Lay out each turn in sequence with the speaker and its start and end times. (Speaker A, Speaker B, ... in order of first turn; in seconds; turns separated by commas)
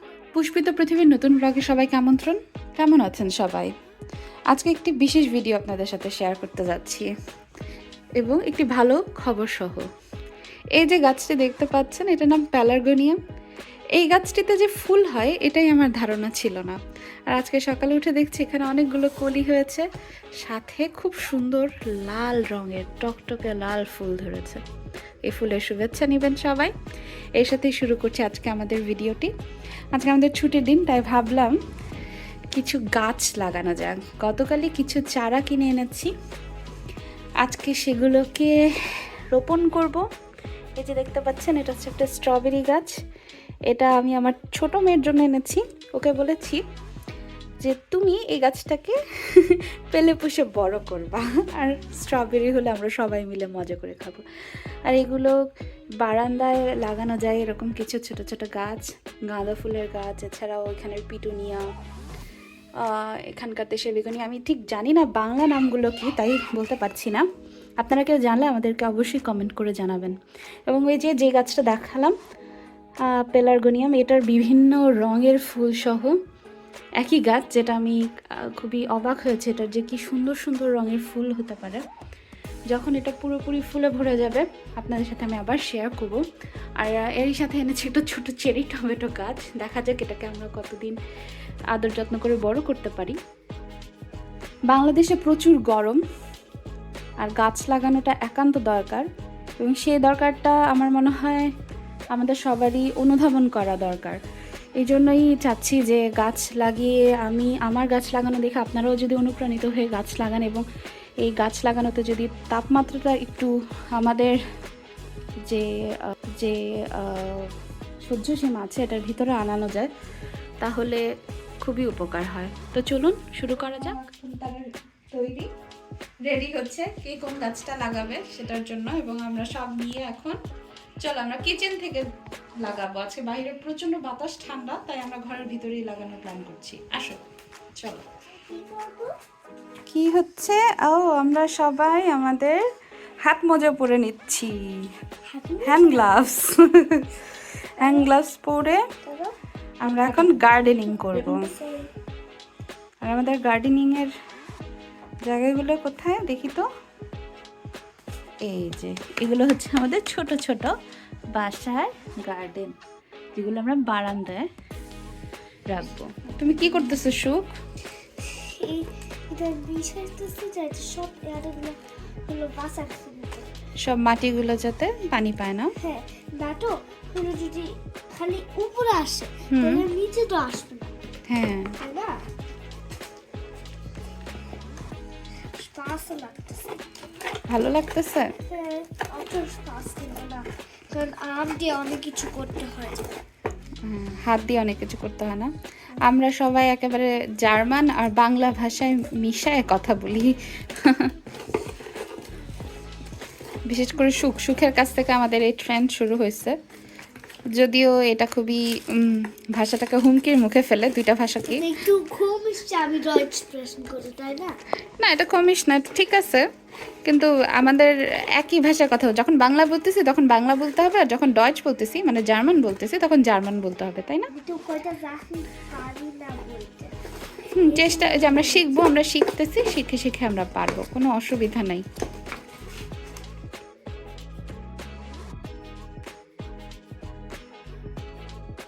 Speaker A: 0.3-3.7, Speaker A: 4.5-7.1, Speaker A: 8.2-9.9, Speaker A: 10.8-13.2, Speaker A: 13.9-16.8, Speaker A: 17.3-19.9, Speaker A: 20.4-24.6, Speaker A: 25.2-26.8, Speaker A: 27.4-29.3, Speaker A: 29.9-31.6, Speaker A: 32.5-36.1, Speaker A: 37.4-40.0, Speaker A: 40.8-42.9, Speaker A: 43.7-46.6, Speaker A: 47.6-55.4, Speaker A: 56.0-61.6, Speaker A: 62.8-67.2, Speaker A: 67.8-70.2, Speaker A: 70.7-72.2, Speaker A: 73.1-76.2, Speaker A: 77.0-81.8, Speaker A: 82.7-86.2, Speaker A: 86.8-91.0, Speaker A: 91.7-93.2, Speaker A: 94.7-96.0, Speaker A: 97.2-99.1, Speaker A: 99.6-101.5, Speaker A: 102.1-104.2, Speaker A: 104.8-110.6, Speaker A: 111.2-114.3, Speaker A: 115.5-117.5, Speaker A: 118.0-119.9, Speaker A: 120.6-121.0, Speaker A: 121.6-125.5, Speaker A: 126.2-130.4, Speaker A: 131.0-132.1, Speaker A: 132.6-137.2, Speaker B: 138.4-139.1, Speaker A: 139.9-142.6, Speaker A: 143.2-144.8, Speaker B: 145.3-146.3, Speaker A: 145.6-148.8, Speaker B: 147.8-148.1, Speaker B: 148.7-149.3, Speaker A: 149.8-151.5, Speaker B: 149.9-151.9, Speaker A: 153.0-154.1, Speaker A: 155.2-156.7, Speaker A: 158.4-160.7, Speaker A: 161.3-162.8, Speaker A: 163.3-164.4, Speaker A: 165.7-167.5, Speaker B: 168.2-173.5, Speaker A: 173.8-175.7, Speaker B: 175.8-180.9, Speaker A: 179.5-179.9, Speaker A: 181.3-181.7, Speaker B: 181.8-182.2, Speaker B: 185.5-186.8, Speaker A: 187.5-188.3, Speaker B: 188.4-193.1, Speaker A: 193.8-201.1, Speaker A: 203.7-206.6, Speaker A: 207.6-211.7, Speaker B: 211.5-214.5, Speaker A: 215.0-216.5, Speaker A: 217.1-224.3, Speaker B: 224.3-226.9, Speaker B: 227.6-228.9, Speaker A: 227.6-231.8